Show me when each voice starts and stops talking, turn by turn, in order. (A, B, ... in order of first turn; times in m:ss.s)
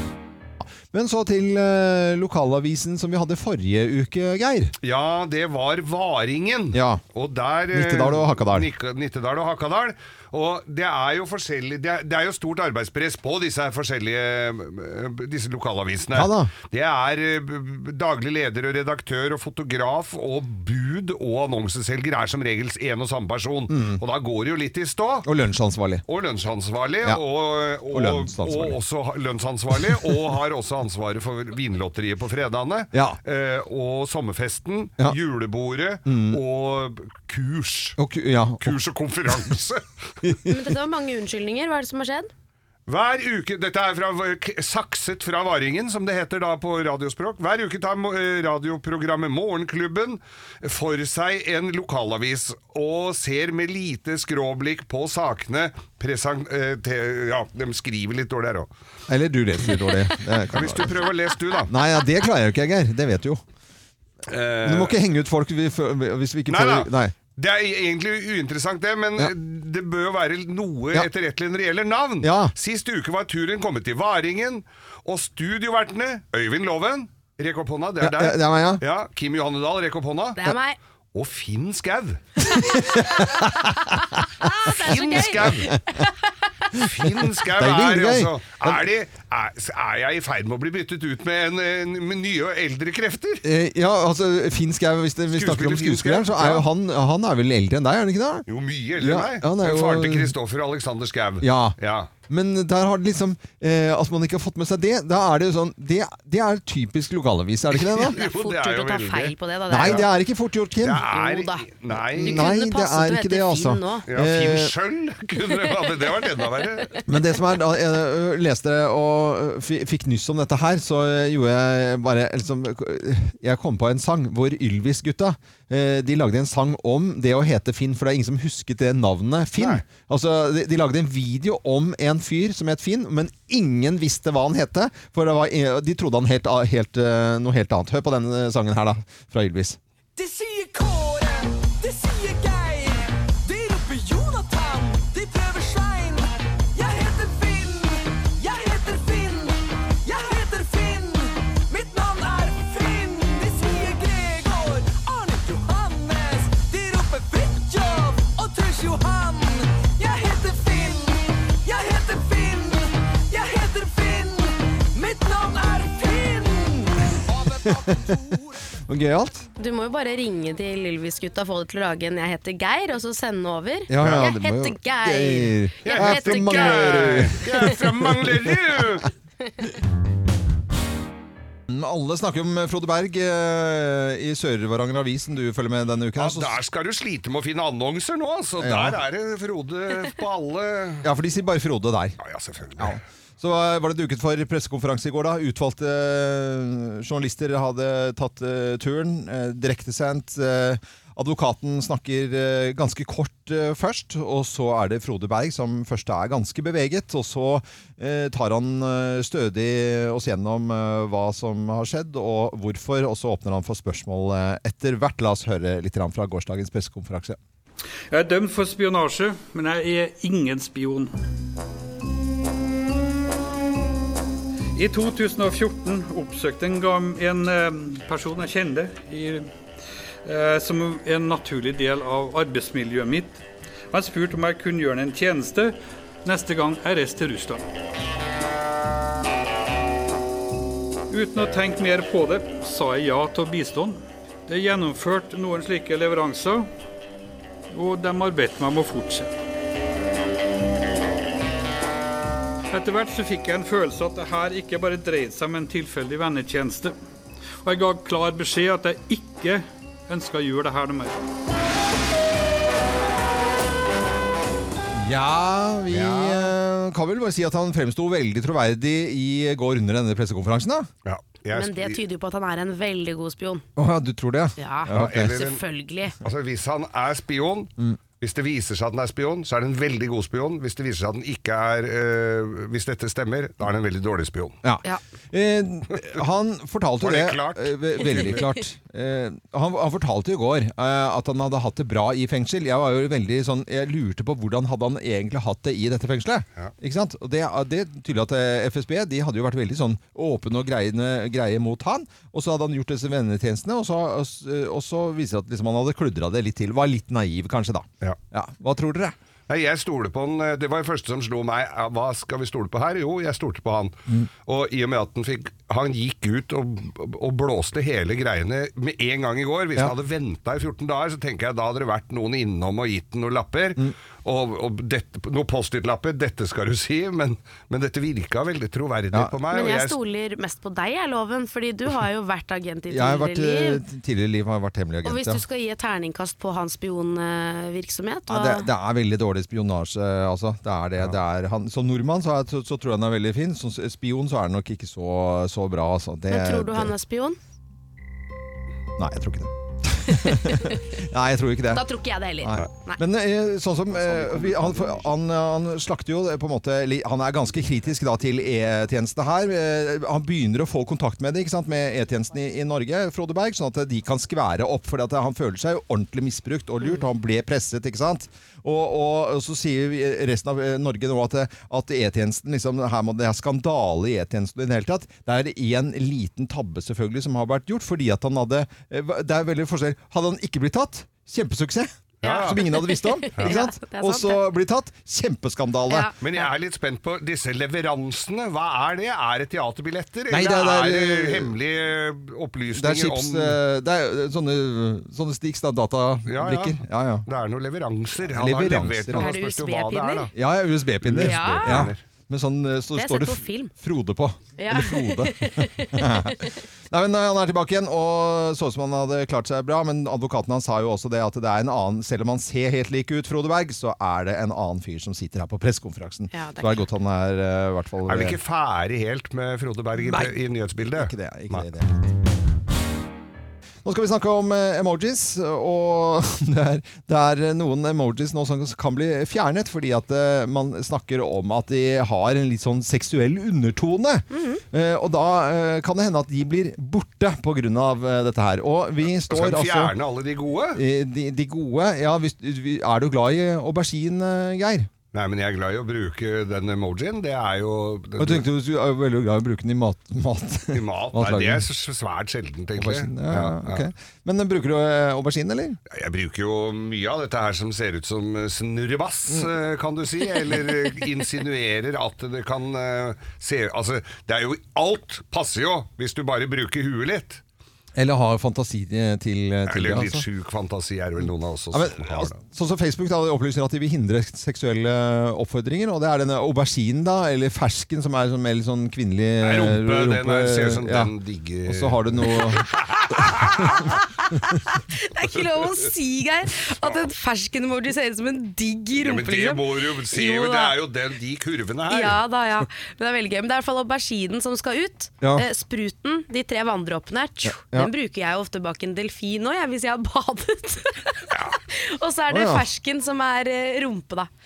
0:00.9-0:04.7 A
0:04.8-0:25.3 B
0:06.7-0:07.0 A
0:07.7-0:08.7 A
0:16.1-0:16.5 A
0:23.7-0:24.0 A
0:25.2-0:26.0 A
0:26.1-0:38.0 B
0:27.9-0:28.8 A
0:32.9-0:33.2 A
0:36.0-0:36.4 A
0:38.0-0:38.8 A
0:38.6-0:39.8 B
0:40.2-0:40.5 A
0:40.5-0:42.3 C
0:42.9-0:58.7 B
0:59.1-1:01.1 A
1:00.5-1:01.7 B
1:01.6-1:03.4 A
1:04.3-1:05.0 B
1:04.6-1:07.1 A
1:06.5-1:20.4 B
1:12.2-1:12.5 A
1:18.0-1:18.8 A
1:20.4-1:20.8 C
1:21.1-1:22.4 B
1:22.5-1:26.1 C
1:22.6-1:23.5 A
1:24.8-1:25.7 B
1:25.2-1:25.8 A
1:26.7-1:33.4 B
1:27.4-1:28.8 A
1:33.4-1:38.4 A
1:35.3-1:36.6 B
1:38.5-1:42.1 B
1:39.0-1:40.3 A
1:41.4-1:41.8 A
1:42.3-1:48.2 A
1:47.7-1:50.0 B
1:48.1-1:50.1 C
1:49.7-1:51.1 A
1:50.8-1:52.5 B
1:51.1-1:51.6 C
1:52.1-1:54.7 A
1:52.2-1:54.0 C
1:54.1-1:57.0 B
1:57.1-2:19.8 A
2:09.6-2:09.8 B
2:20.2-2:48.6 D
2:48.9-2:49.4 A
2:49.6-2:57.7 C
2:53.9-2:58.8 A
2:54.0-2:54.3 B
2:55.8-2:59.1 B
3:01.7-3:06.6 A
3:06.2-3:11.0 B
3:08.6-3:09.0 A
3:11.0-3:12.2 A
3:12.2-3:13.0 B
3:12.8-3:37.4 A
3:38.1-3:41.1 E
3:44.7-3:49.5 E
3:50.2-3:57.6 E
4:01.1-4:06.7 E
4:07.7-4:09.3 E
4:12.7-4:16.9 E
4:17.6-4:21.1 E
4:24.9-4:30.9 A
4:25.9-4:26.5 B
4:31.0-4:32.0 B
4:31.5-4:33.6 C
4:33.8-4:35.3 A
4:34.6-4:36.1 C
4:34.9-4:35.6 B
4:36.2-4:44.6 B
4:44.6-5:09.2 A
4:47.0-4:48.4 B
5:09.5-5:30.0 B
5:29.5-5:33.8 C
5:32.9-5:35.4 A
5:35.0-5:38.7 C
5:38.3-5:46.9 A
5:46.3-5:47.4 C
5:49.0-5:51.8 A
5:50.1-5:50.8 C
5:51.7-5:53.0 C
5:52.4-6:26.1 A
5:54.0-5:55.0 B
6:22.2-6:22.6 B
6:22.2-6:24.4 C
6:25.9-6:26.1 C
6:26.2-6:33.6 B
6:30.3-6:31.5 A
6:32.7-6:37.2 A
6:36.3-6:40.3 B
6:38.3-6:39.3 A
6:39.2-6:40.3 C
6:40.3-6:58.4 A
6:41.0-6:42.0 B
6:41.2-6:41.9 C
6:43.0-6:43.7 C
6:44.6-6:46.5 C
6:56.3-6:56.8 C
6:58.1-7:01.6 B
7:00.0-7:00.4 A
7:00.9-7:02.1 A
7:03.8-7:19.9 A
7:14.3-7:14.6 C
7:19.2-7:20.8 B
7:20.7-7:24.9 A
7:25.1-7:28.4 B
7:28.2-7:31.6 A
7:30.7-7:33.9 B
7:32.8-7:35.8 A
7:35.9-7:47.4 B
7:48.0-7:50.2 A
7:49.7-7:52.3 B
7:51.2-8:01.1 A
7:59.4-8:03.9 B
8:01.6-8:03.7 A
8:04.5-8:10.8 C
8:08.9-8:12.2 B
8:11.9-8:24.3 C
8:17.4-8:17.9 A
8:21.3-8:21.6 B
8:22.3-8:22.6 A